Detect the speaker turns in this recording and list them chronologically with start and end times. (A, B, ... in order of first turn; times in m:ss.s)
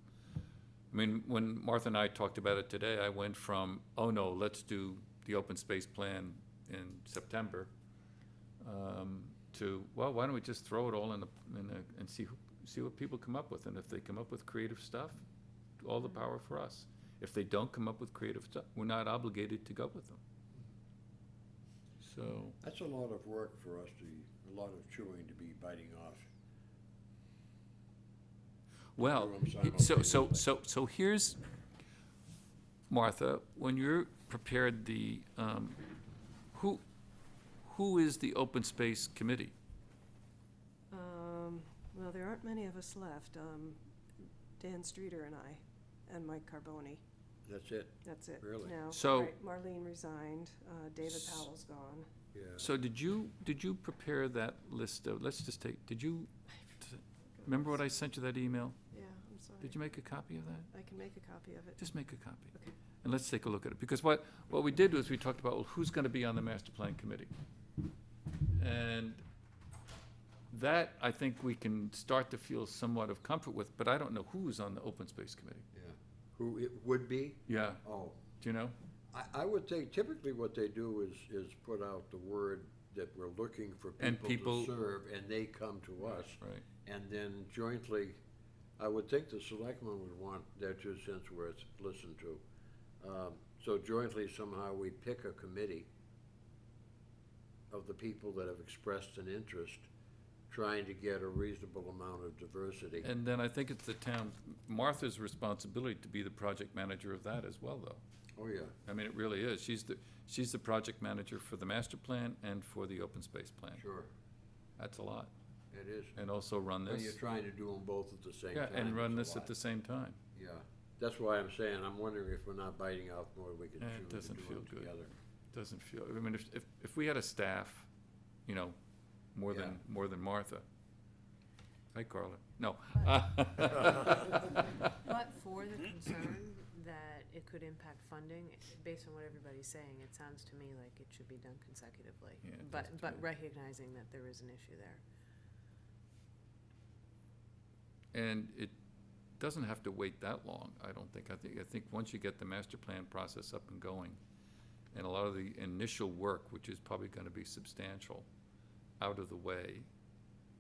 0:00.9-0:07.7 A
0:08.6-0:15.2 A
0:15.8-0:20.2 A
0:22.0-0:22.6 A
0:22.6-0:26.3 B
0:29.0-0:31.4 A
0:29.0-0:30.5 B
0:32.9-0:35.8 A
0:36.5-0:36.8 A
0:37.6-0:39.5 A
0:40.9-0:43.8 C
0:44.6-0:47.0 C
0:47.4-0:48.8 B
0:48.0-0:52.1 C
0:48.9-0:49.4 A
0:51.0-0:51.5 A
0:52.3-0:52.7 B
0:52.6-0:58.8 A
0:58.9-0:59.8 C
0:59.6-1:00.7 A
1:00.7-1:01.8 C
1:01.8-1:07.3 A
1:08.5-1:09.2 A
1:10.5-1:15.6 A
1:15.7-1:18.2 B
1:17.5-1:17.8 A
1:18.4-1:18.7 A
1:19.1-1:28.2 B
1:24.0-1:24.7 A
1:26.4-1:26.6 A
1:28.8-1:32.4 B
1:33.0-1:35.9 B
1:37.7-1:39.9 B
1:40.5-1:43.1 B
1:43.0-1:48.0 A
1:48.4-1:48.7 B
1:48.8-1:53.8 A
1:53.8-1:54.1 B
1:54.8-1:55.3 A
1:55.7-1:56.2 B
1:56.1-1:57.2 A
1:56.8-1:59.5 B
1:58.5-2:00.2 A
2:00.3-2:05.1 B
2:03.8-2:04.9 A
2:05.5-2:07.9 A
2:08.4-2:08.8 A
2:09.3-2:10.6 A
2:09.5-2:09.8 B
2:11.9-2:14.5 A
2:14.9-2:25.0 D
2:22.4-2:23.2 A
2:28.1-2:28.7 A
2:29.4-2:34.2 A
2:34.9-2:38.3 A
2:39.0-2:39.9 A